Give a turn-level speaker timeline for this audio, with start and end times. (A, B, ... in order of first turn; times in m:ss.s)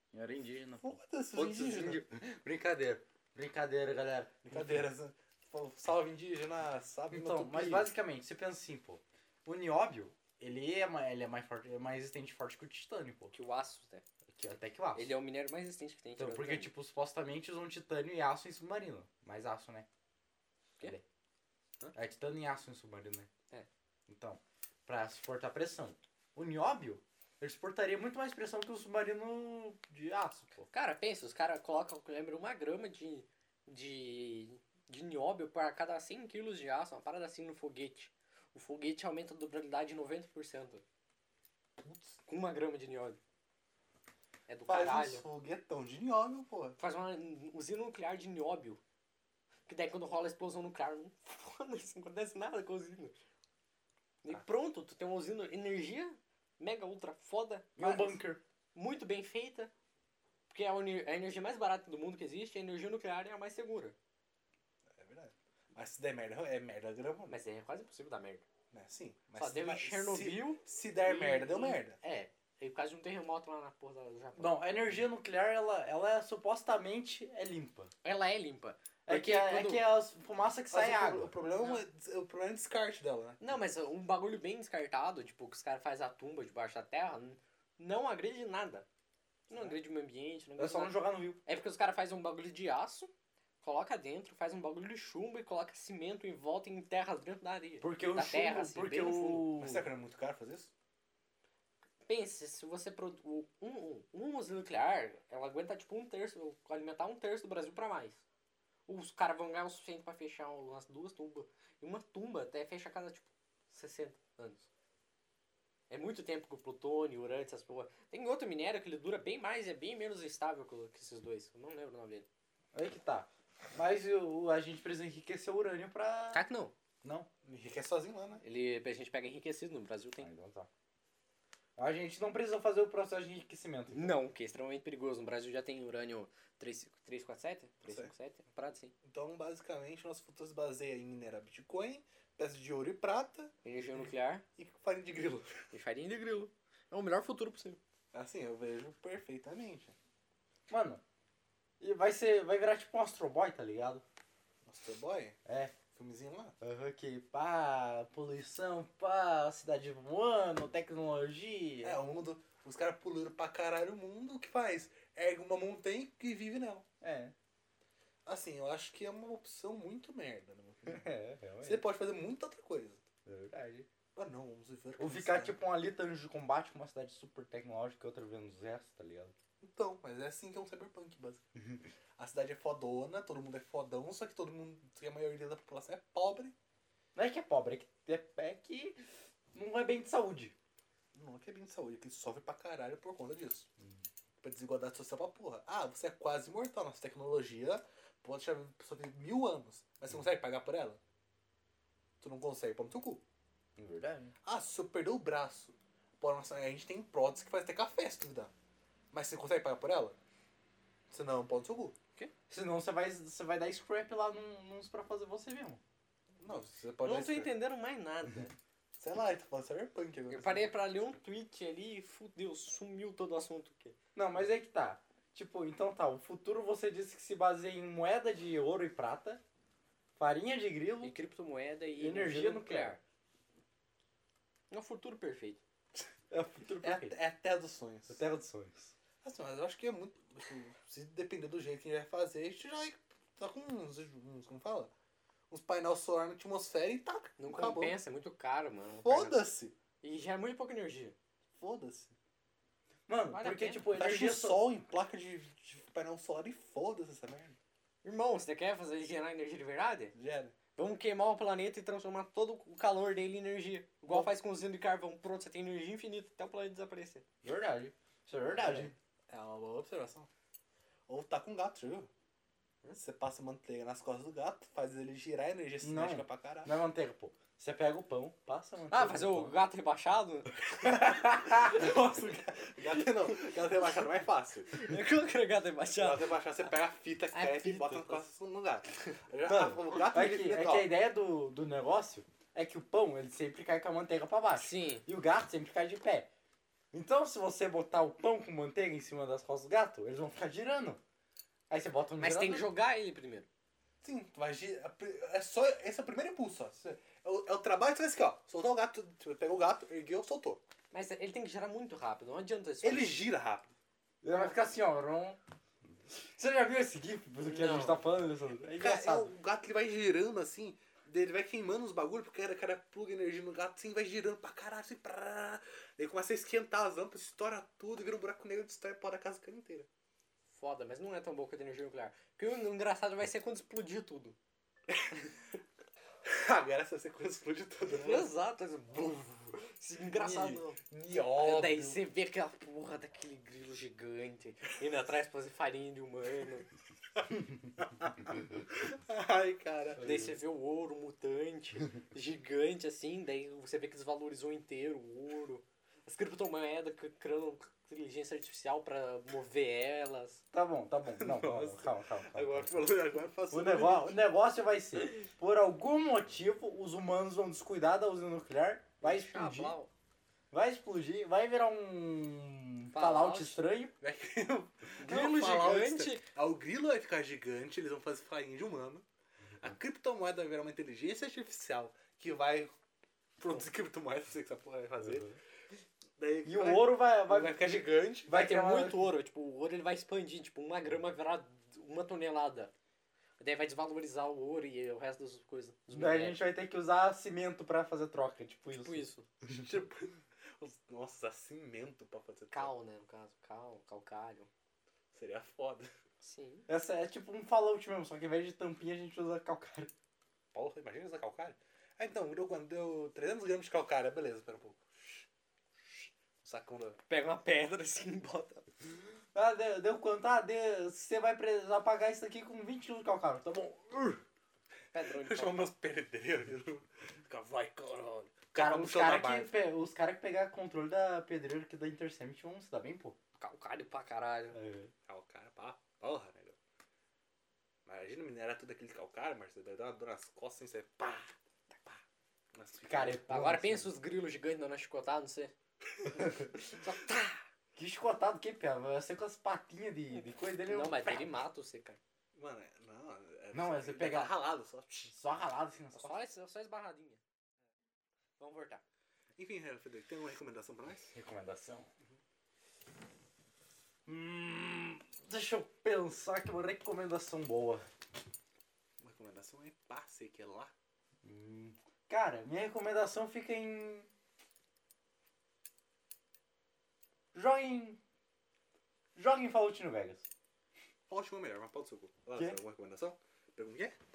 0:00.1-0:04.9 A
0:00.8-0:02.0 B
0:04.4-0:07.9 B
0:07.1-0:13.3 A
0:13.3-0:14.0 C
0:14.3-0:15.1 A
0:15.0-0:16.7 C
0:16.2-0:19.9 A
0:22.0-0:23.3 A
0:24.1-0:30.7 A
0:30.7-0:40.8 C
0:41.8-0:42.2 B
0:42.3-0:43.2 C
0:44.5-0:45.2 C
0:44.7-0:46.8 B
0:46.8-0:48.8 C
0:49.7-0:53.2 C
0:54.2-0:58.2 C
0:57.8-0:58.4 A
0:58.8-0:59.7 C
1:00.5-1:04.0 C
1:04.9-1:07.4 B
1:07.3-1:08.5 C
1:08.7-1:12.0 B
1:09.4-1:14.6 C
1:14.4-1:17.9 A
1:18.0-1:19.8 C
1:19.1-1:21.3 A
1:20.7-1:23.4 B
1:21.6-1:21.8 C
1:23.4-1:28.9 C
1:29.5-1:33.1 C
1:30.6-1:31.4 A
1:33.6-1:39.5 C
1:37.8-1:39.9 A
1:39.6-1:40.7 B
1:42.1-1:48.2 C
1:48.9-1:54.7 C
1:55.9-2:02.3 C
2:02.7-2:06.4 A
2:06.3-2:06.7 C
2:07.0-2:07.3 A
2:07.4-2:08.4 B
2:08.4-2:10.3 C
2:10.2-2:10.7 A
2:11.8-2:14.2 A
2:13.9-2:18.9 C
2:17.9-2:18.1 B
2:19.0-2:24.0 B
2:23.6-2:24.4 C
2:24.6-2:25.7 B
2:25.7-2:27.8 C
2:28.1-2:30.0 B
2:30.7-2:31.0 A
2:31.8-2:34.0 A
2:34.6-2:35.4 B
2:35.5-2:35.8 A
2:35.9-2:36.6 B
2:36.6-2:42.0 A
2:41.8-2:46.8 B
2:47.0-2:47.3 A
2:48.2-2:51.1 B
2:50.9-2:51.8 A
2:51.6-2:53.0 B
2:53.3-2:53.9 A
2:54.2-2:55.6 B
2:55.0-2:59.3 A
2:59.6-3:01.4 B
3:01.6-3:01.8 A
3:02.2-3:06.6 B
3:07.2-3:09.0 A
3:09.5-3:10.5 A
3:11.1-3:13.7 B
3:14.4-3:21.0 B
3:22.2-3:23.2 B
3:23.8-3:24.3 A
3:24.4-3:28.5 B
3:29.1-3:30.2 B
3:31.1-3:32.0 B
3:32.5-3:35.8 A
3:36.4-3:37.5 B
3:37.0-3:38.5 C
3:39.0-3:40.7 B
3:40.3-3:44.0 C
3:44.2-3:49.4 A
3:50.2-3:51.1 A
3:51.0-3:53.0 C
3:52.0-3:53.0 A
3:54.7-3:55.6 C
3:56.3-3:57.2 A
3:56.8-3:58.2 B
3:58.1-3:58.9 A
3:59.2-4:04.9 B
4:05.5-4:08.0 B
4:07.4-4:09.4 C
4:09.0-4:09.8 B
4:10.0-4:11.2 C
4:11.6-4:12.1 B
4:13.1-4:14.6 A
4:13.3-4:13.9 C
4:14.0-4:17.6 B
4:18.0-4:20.2 C
4:20.2-4:20.6 B
4:20.8-4:27.2 C
4:27.4-4:28.9 A
4:28.6-4:30.3 B
4:31.1-4:32.1 B
4:33.0-4:36.7 B
4:35.8-4:39.6 A
4:38.9-4:41.2 C
4:41.0-4:41.7 A
4:41.4-4:44.9 B
4:42.9-4:43.8 C
4:44.7-4:46.3 C
4:46.0-4:50.9 B
4:47.3-4:48.2 C
4:49.4-4:56.3 A
4:54.5-4:55.0 C
4:56.9-5:01.0 A
5:01.7-5:02.7 A
5:02.2-5:03.5 C
5:04.0-5:10.6 B
5:10.9-5:13.3 C
5:12.8-5:13.7 B
5:14.2-5:15.4 A
5:14.3-5:14.6 C
5:16.1-5:19.3 A
5:17.4-5:18.0 C
5:18.6-5:29.9 B
5:30.5-5:34.4 C
5:36.2-5:38.3 B
5:37.9-5:40.8 C
5:40.2-5:42.0 B
5:41.3-5:46.7 C
5:47.2-5:50.1 B
5:50.0-5:50.3 A
5:50.0-6:00.4 C
6:00.5-6:02.7 A
6:01.1-6:04.2 B
6:03.5-6:09.7 A
6:09.0-6:09.9 C
6:10.5-6:14.0 A
6:12.9-6:13.6 C
6:14.0-6:19.1 B
6:15.0-6:16.3 C
6:19.6-6:22.7 B
6:23.4-6:25.3 B
6:25.0-6:25.3 A
6:26.2-6:28.3 B
6:26.4-6:29.1 A
6:28.3-6:32.7 C
6:33.4-6:36.4 C
6:35.9-6:39.6 A
6:38.7-6:39.3 C
6:39.5-6:42.7 B
6:42.5-6:44.5 C
6:45.1-6:45.9 B
6:46.2-6:46.7 C
6:46.7-6:49.9 A
6:50.5-6:55.3 B
6:56.4-6:58.7 C
6:59.3-7:04.2 A
7:04.9-7:05.7 C
7:05.1-7:09.5 B
7:08.6-7:13.2 A
7:13.4-7:14.6 C
7:14.5-7:14.9 A
7:15.1-7:16.6 B
7:17.9-7:21.3 B
7:22.5-7:23.2 B
7:22.8-7:23.9 A
7:23.3-7:25.5 C
7:26.2-7:27.5 C
7:27.8-7:31.4 A
7:30.7-7:32.0 C
7:32.3-7:35.1 B
7:33.5-7:34.4 A
7:35.1-7:36.2 A
7:35.9-7:37.2 C
7:38.4-7:38.8 C
7:39.4-7:41.1 B
7:41.1-7:41.9 A
7:44.1-7:47.9 A
7:49.0-7:50.7 B
7:51.2-7:54.1 A
7:57.3-7:58.0 A
7:59.2-8:00.3 A
8:01.1-8:04.0 B